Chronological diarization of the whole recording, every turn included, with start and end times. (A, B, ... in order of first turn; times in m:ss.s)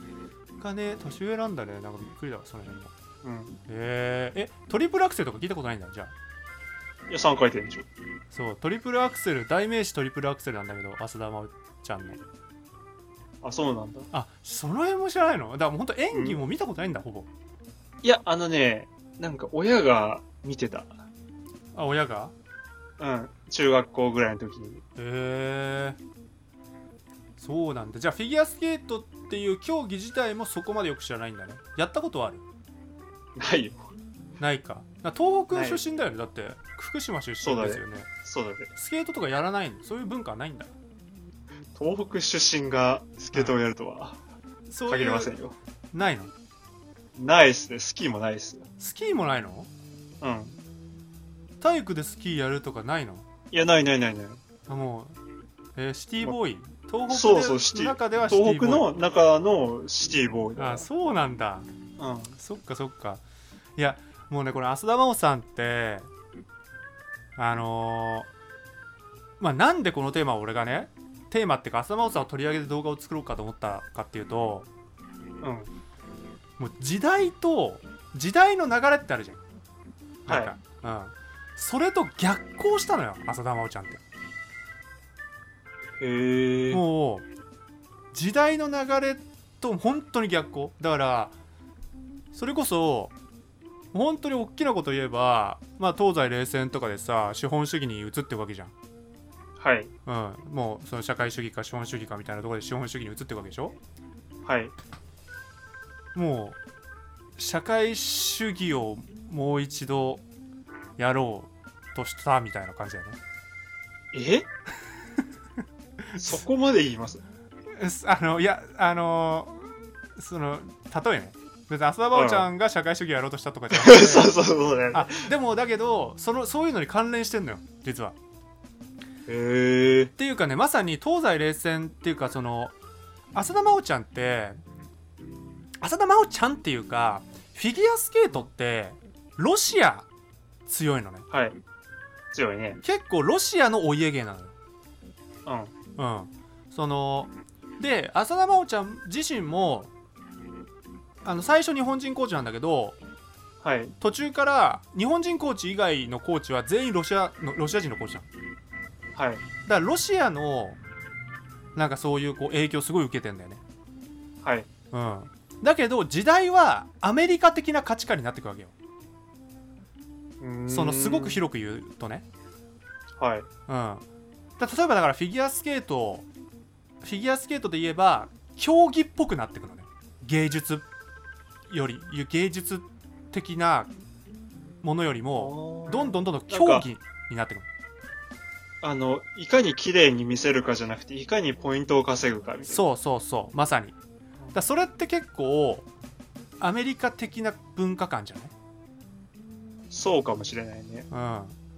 0:00.6-0:02.9 A
0:03.2-0:03.6 B
0:03.7-0:06.1 A
0:07.1-0:07.9 B
0:08.3-0:12.2 A
0:13.4-0:14.1 B
0:14.1-0:17.3 A
0:16.1-0:16.4 B
0:18.0-0:21.0 B
0:21.7-0:22.3 A
0:23.0-0:24.8 B
0:25.0-0:26.0 A
0:27.4-0:32.4 A
0:33.4-0:33.9 B
0:34.4-0:38.1 A
0:35.5-0:35.8 B
0:37.4-0:38.7 B
0:38.7-0:40.7 A
0:41.7-0:44.2 B
0:44.7-0:45.3 A
0:44.9-0:45.6 B
0:45.9-0:46.3 A
0:47.1-0:48.6 B
0:48.8-0:49.7 A
0:50.2-0:50.6 B
0:51.6-0:53.2 A
0:53.5-0:54.4 B
0:54.7-0:55.2 A
0:55.8-0:58.8 A
0:57.1-1:00.9 B
1:00.6-1:01.7 A
1:02.0-1:02.4 B
1:02.4-1:03.2 A
1:03.8-1:06.1 A
1:07.4-1:08.3 A
1:09.4-1:14.7 A
1:15.4-1:15.7 B
1:16.6-1:19.4 A
1:20.2-1:24.0 A
1:20.3-1:20.5 B
1:26.0-1:26.8 B
1:26.7-1:27.3 A
1:28.1-1:31.3 A
1:32.3-1:33.1 A
1:33.9-1:38.7 A
1:39.6-1:39.9 B
1:40.0-1:43.8 A
1:44.4-1:44.7 B
1:46.1-1:46.6 A
1:47.4-1:50.2 A
1:51.0-1:53.2 A
1:54.1-1:54.5 B
1:56.1-1:56.4 A
1:56.2-1:57.2 B
1:57.8-2:04.3 A
2:02.1-2:02.5 B
2:03.7-2:05.3 B
2:04.9-2:08.2 A
2:09.3-2:10.1 B
2:10.2-2:12.7 A
2:13.3-2:14.6 A
2:15.8-2:20.1 A
2:20.7-2:21.2 A
2:21.3-2:21.6 B
2:22.3-2:22.8 B
2:22.8-2:24.5 A
2:25.4-2:25.7 B
2:26.0-2:29.9 A
2:31.2-2:33.0 A
2:33.6-2:33.9 B
2:34.0-2:38.3 A
2:39.1-2:39.4 B
2:39.6-2:40.8 A
2:41.7-2:43.6 A
2:44.4-2:44.7 B
2:44.9-2:48.7 A
2:50.4-2:51.4 B
2:50.7-2:52.2 A
2:53.2-2:53.5 B
2:53.7-2:54.0 A
2:54.6-2:56.3 A
2:57.0-3:00.8 A
3:01.7-3:03.9 A
3:04.8-3:07.7 A
3:05.4-3:06.9 B
3:08.8-3:12.8 B
3:12.7-3:14.0 A
3:14.5-3:15.9 A
3:16.6-3:18.5 A
3:19.9-3:21.1 B
3:21.1-3:21.6 A